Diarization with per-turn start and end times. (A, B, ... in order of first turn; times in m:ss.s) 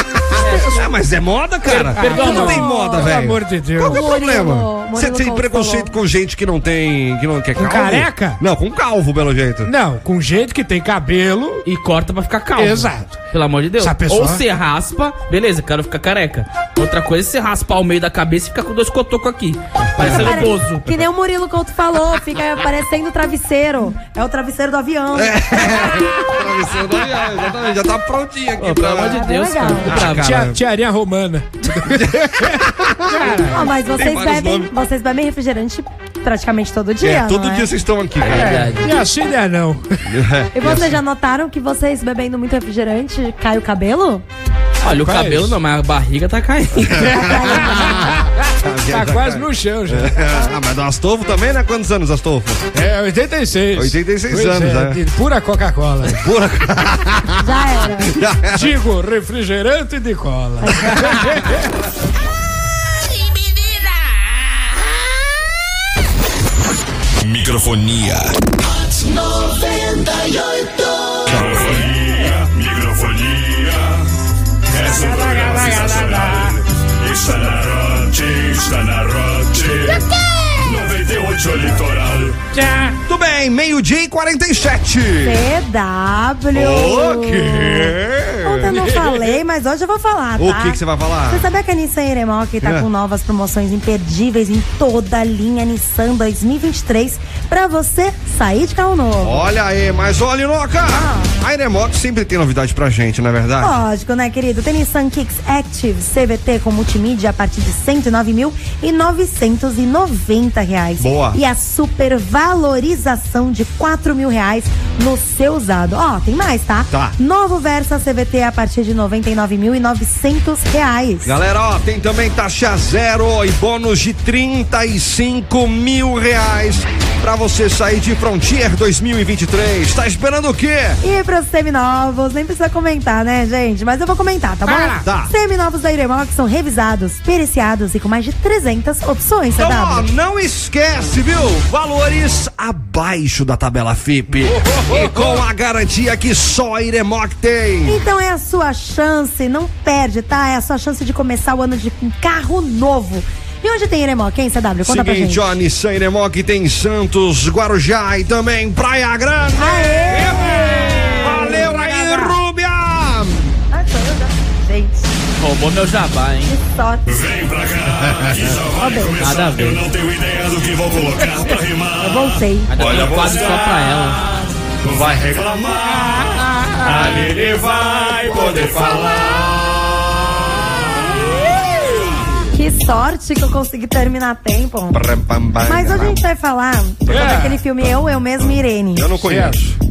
0:00.4-0:00.9 A
0:00.5-0:09.7 B
0:01.7-0:04.1 A
0:01.7-0:02.4 C
0:02.0-0:03.1 D
0:03.9-0:06.0 D
0:07.6-0:08.4 A
0:09.6-0:11.6 A
0:11.7-0:20.9 C
0:12.6-0:13.2 A
0:13.8-0:14.4 A
0:19.9-0:20.6 B
0:20.0-0:26.1 D
0:25.1-0:29.2 B
0:28.6-0:30.4 C
0:29.1-0:30.0 D
0:29.9-0:30.6 B
0:30.0-0:33.7 A
0:31.8-0:34.7 B
0:33.5-0:37.7 D
0:37.0-0:38.7 B
0:38.2-0:38.9 C
0:38.3-0:40.1 A
0:40.0-0:41.0 B
0:40.5-0:44.2 D
0:44.8-0:48.0 C
0:44.8-0:45.6 A
0:46.8-0:52.7 B
0:47.0-0:50.3 A
0:52.7-0:56.2 A
0:53.7-0:55.0 B
0:56.1-0:57.4 B
0:57.4-0:58.2 D
0:58.0-0:58.8 B
0:58.5-1:01.7 A
1:00.6-1:00.9 D
1:07.2-1:08.3 E
1:11.3-1:14.1 E
1:11.3-1:11.7 B
1:14.7-1:20.1 E
1:14.8-1:16.6 A
1:20.6-1:22.4 E
1:22.5-1:23.0 A
1:23.1-1:25.5 B
1:25.2-1:39.5 D
1:26.5-1:28.7 B
1:28.7-1:29.4 A
1:30.4-1:31.4 B
1:39.2-1:43.8 B
1:40.9-1:41.3 D
1:43.6-2:01.4 D
1:51.0-1:51.4 B
1:56.9-1:57.2 B
2:01.2-2:11.0 B
2:11.0-2:20.1 D
2:14.7-2:15.0 A
2:15.0-2:15.3 B
2:19.6-2:28.0 B
2:24.5-2:25.4 A
2:27.9-2:35.4 D
2:34.8-2:40.6 B
2:39.6-2:42.4 D
2:40.2-2:41.1 A
2:41.2-2:43.6 B
2:43.7-2:45.0 D
2:45.4-2:46.6 C
2:46.5-2:47.0 D
2:47.1-2:54.3 E
2:48.8-2:49.2 D
2:49.2-2:49.8 C
2:52.0-2:52.7 D
2:52.7-2:54.2 C
2:52.8-2:53.4 B
2:54.8-2:56.1 E
2:55.7-2:56.1 B
2:56.1-2:57.0 A
2:56.8-3:00.2 E
2:56.9-2:57.3 B
2:58.0-2:59.4 B
3:02.5-3:05.0 D
3:04.9-3:06.2 B
3:05.6-3:09.1 D
3:07.1-3:09.8 B
3:07.1-3:07.6 A
3:09.2-3:09.6 A